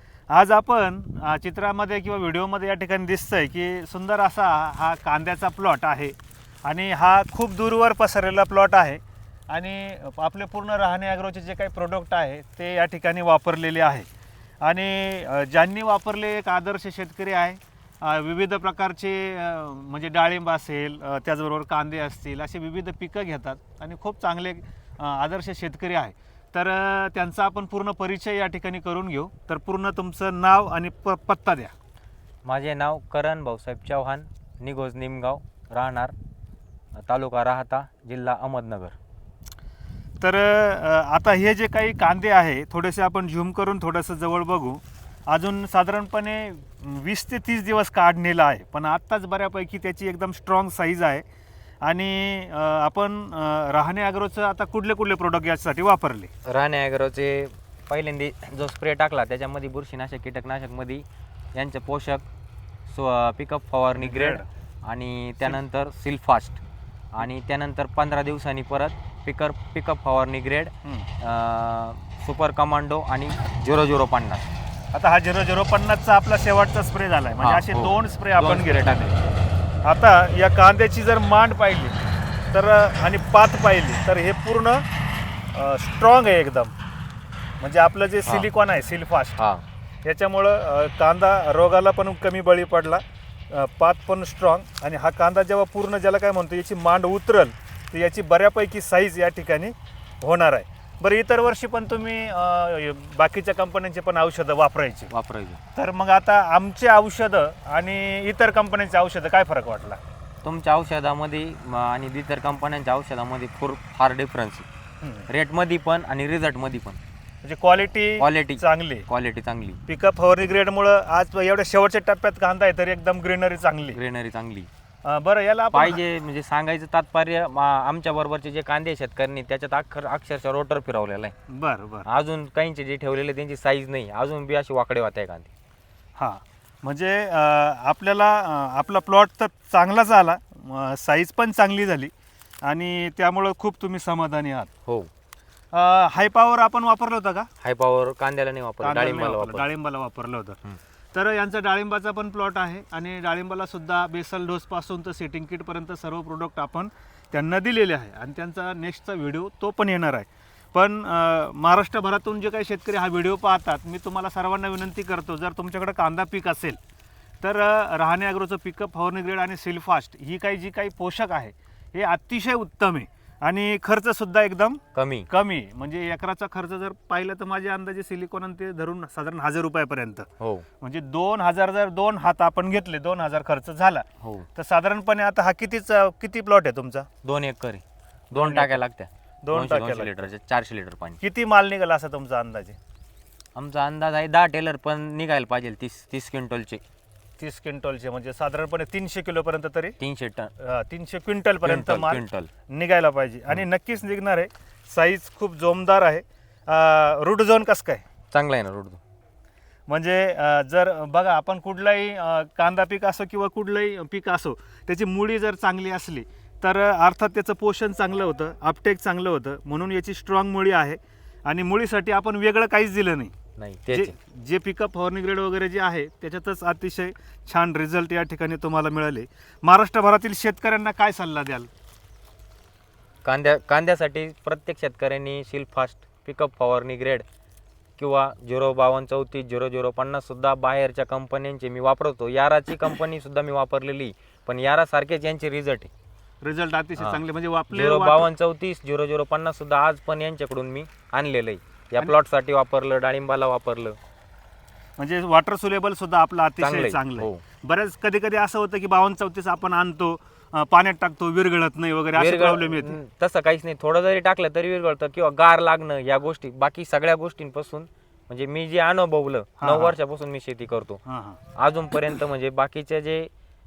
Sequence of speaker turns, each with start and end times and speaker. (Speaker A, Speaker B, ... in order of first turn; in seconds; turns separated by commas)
Speaker A: 0.3-14.1, Speaker A: 14.6-31.7, Speaker B: 32.4-36.1, Speaker B: 36.9-39.0, Speaker A: 40.2-51.2, Speaker A: 51.8-56.3, Speaker B: 56.4-62.2, Speaker B: 62.9-66.6, Speaker A: 64.0-64.5, Speaker B: 67.1-74.5, Speaker A: 74.9-79.1, Speaker B: 77.4-79.3, Speaker A: 79.8-81.9, Speaker A: 82.5-84.8, Speaker A: 85.5-86.7, Speaker A: 87.6-89.4, Speaker B: 89.4-89.6, Speaker A: 90.0-105.1, Speaker B: 105.1-105.6, Speaker A: 105.7-110.0, Speaker B: 110.4-114.7, Speaker A: 115.0-115.3, Speaker B: 115.3-117.0, Speaker A: 117.4-119.1, Speaker B: 118.2-119.8, Speaker A: 119.9-124.0, Speaker B: 123.9-124.7, Speaker A: 125.0-126.0, Speaker B: 125.7-131.3, Speaker A: 131.5-132.1, Speaker B: 132.1-135.5, Speaker A: 136.2-142.1, Speaker A: 142.6-144.7, Speaker A: 145.7-147.5, Speaker B: 147.6-149.7, Speaker A: 148.8-150.6, Speaker A: 151.1-166.8, Speaker A: 167.4-180.3, Speaker B: 174.9-175.3, Speaker B: 180.4-180.7, Speaker A: 180.8-187.1, Speaker B: 184.2-184.5, Speaker B: 187.2-191.2, Speaker A: 188.3-188.8, Speaker A: 189.4-190.2, Speaker A: 191.2-192.8, Speaker B: 193.6-196.8, Speaker A: 197.4-200.0, Speaker B: 200.0-200.5, Speaker A: 200.6-208.0, Speaker B: 201.6-202.5, Speaker B: 208.3-209.0, Speaker A: 209.9-223.3, Speaker B: 223.6-224.1, Speaker A: 223.9-231.7, Speaker B: 233.2-237.2, Speaker B: 238.0-245.9, Speaker A: 246.4-248.3, Speaker B: 247.7-254.0, Speaker A: 255.0-263.0, Speaker B: 256.6-257.4, Speaker B: 262.1-271.0, Speaker A: 269.6-269.9, Speaker A: 271.1-271.4, Speaker B: 271.6-273.3